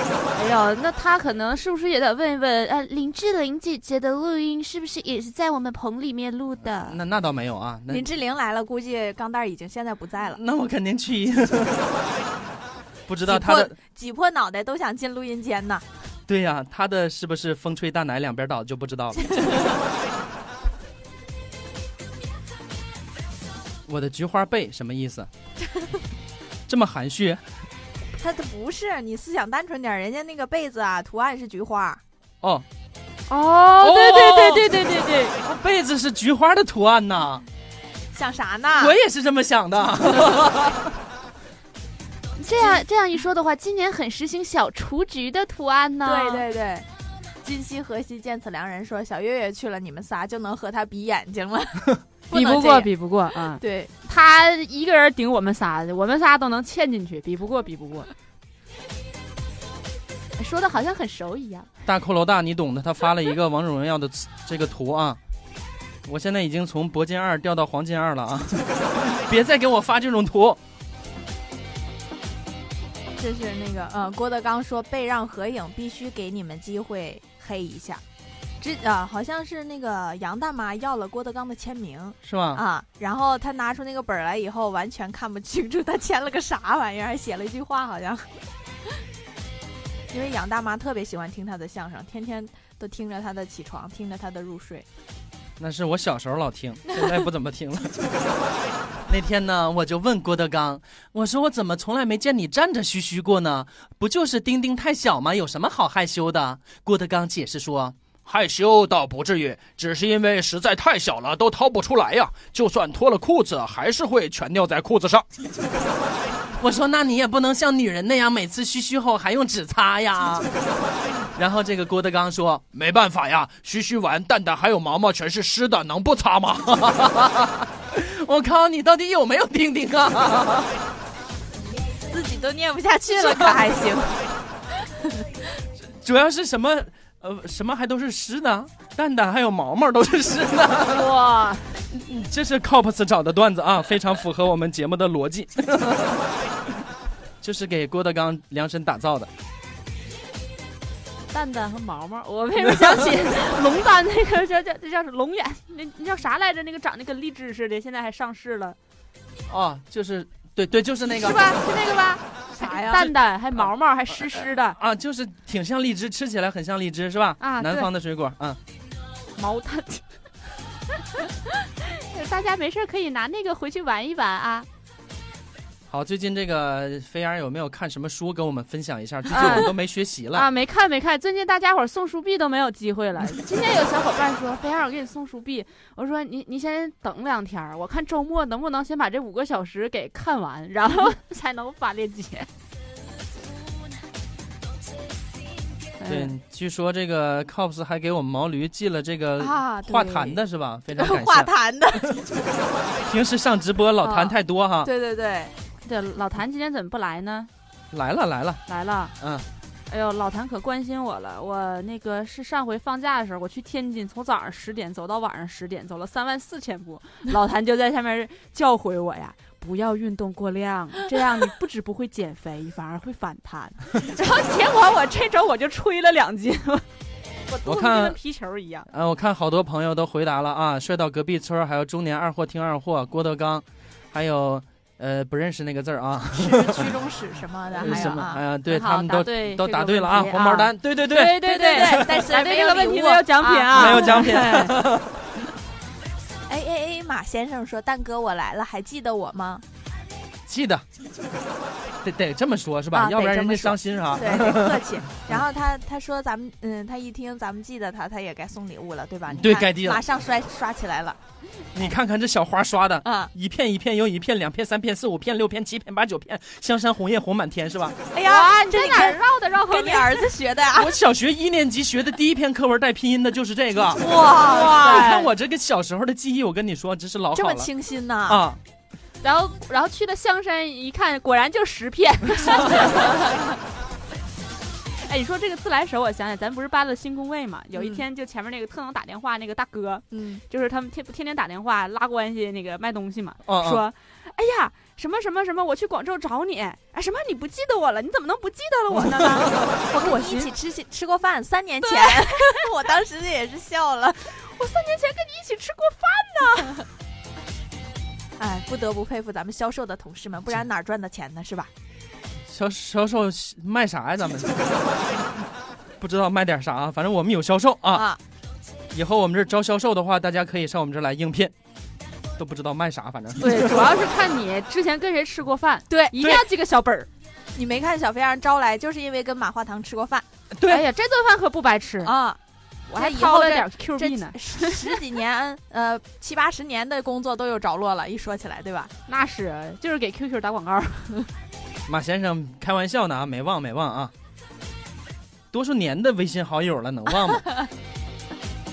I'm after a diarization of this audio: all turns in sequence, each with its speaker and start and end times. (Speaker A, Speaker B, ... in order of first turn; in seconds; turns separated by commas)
Speaker A: 0.3-7.0, Speaker B: 6.8-8.1, Speaker C: 7.9-10.4, Speaker B: 10.4-12.1, Speaker B: 13.1-13.8, Speaker C: 13.3-15.8, Speaker B: 16.3-19.7, Speaker C: 19.3-19.8, Speaker B: 23.9-25.3, Speaker B: 26.7-27.4, Speaker C: 28.2-32.0, Speaker A: 33.3-35.4, Speaker B: 33.8-34.7, Speaker B: 35.4-37.4, Speaker C: 38.1-39.0, Speaker B: 38.7-40.9, Speaker A: 42.4-46.5, Speaker C: 46.0-46.9, Speaker C: 47.4-52.9, Speaker A: 52.3-58.1, Speaker C: 53.6-53.9, Speaker A: 60.4-61.7, Speaker B: 61.9-65.2, Speaker B: 66.1-70.6, Speaker C: 73.2-78.0, Speaker C: 78.6-88.3, Speaker B: 82.2-82.6, Speaker C: 90.1-94.9, Speaker B: 95.6-97.9, Speaker B: 99.1-115.3, Speaker B: 116.6-120.5, Speaker B: 121.4-130.7, Speaker C: 132.1-134.2, Speaker B: 133.1-133.6, Speaker B: 135.8-141.1, Speaker A: 140.9-141.7, Speaker B: 141.9-146.2, Speaker B: 147.4-149.3, Speaker A: 151.3-158.8, Speaker B: 152.6-153.1, Speaker B: 159.5-161.4, Speaker C: 161.2-161.9, Speaker A: 161.3-164.8, Speaker C: 162.5-163.1, Speaker B: 163.6-168.6, Speaker A: 167.4-167.9, Speaker A: 169.4-170.0, Speaker A: 171.7-174.7, Speaker B: 175.9-180.5, Speaker A: 179.3-179.8, Speaker A: 180.3-192.5, Speaker A: 196.0-196.3, Speaker B: 196.1-202.2, Speaker C: 199.4-200.4, Speaker C: 200.9-202.2, Speaker B: 203.0-204.9, Speaker C: 204.0-205.5, Speaker A: 205.8-207.5, Speaker B: 207.9-208.6, Speaker A: 208.7-209.1, Speaker B: 209.2-209.5, Speaker A: 209.9-226.8, Speaker A: 227.5-228.9, Speaker B: 227.7-228.2, Speaker B: 228.9-236.9, Speaker C: 236.3-238.4, Speaker A: 237.8-244.8, Speaker B: 237.8-242.1, Speaker C: 241.4-244.7, Speaker B: 243.7-245.2, Speaker C: 246.5-249.6, Speaker B: 250.5-250.8, Speaker B: 252.0-255.4, Speaker C: 252.9-261.2, Speaker B: 259.3-260.0, Speaker B: 261.7-268.0, Speaker C: 263.0-263.3, Speaker C: 268.1-270.9, Speaker A: 268.2-270.3, Speaker B: 270.8-274.0, Speaker C: 274.0-275.0, Speaker A: 274.2-275.3, Speaker B: 274.7-277.7, Speaker C: 277.3-278.4, Speaker B: 278.3-278.6, Speaker A: 279.2-283.2, Speaker B: 282.4-282.8, Speaker A: 285.0-300.5, Speaker C: 287.8-288.0, Speaker C: 290.1-290.4, Speaker B: 293.5-293.8, Speaker B: 298.9-299.7, Speaker C: 299.9-304.3, Speaker A: 301.8-302.7, Speaker A: 304.3-306.9, Speaker C: 308.4-311.7, Speaker B: 312.5-315.3, Speaker B: 316.0-318.1, Speaker C: 317.9-318.2, Speaker B: 318.9-321.5, Speaker B: 322.4-323.9, Speaker A: 323.4-327.1, Speaker B: 326.2-326.5, Speaker C: 327.6-330.2, Speaker B: 330.5-330.9, Speaker A: 330.7-332.1, Speaker C: 332.0-332.4, Speaker A: 332.9-334.9, Speaker C: 333.0-338.9, Speaker A: 339.1-341.2, Speaker B: 341.9-344.1, Speaker B: 345.5-347.5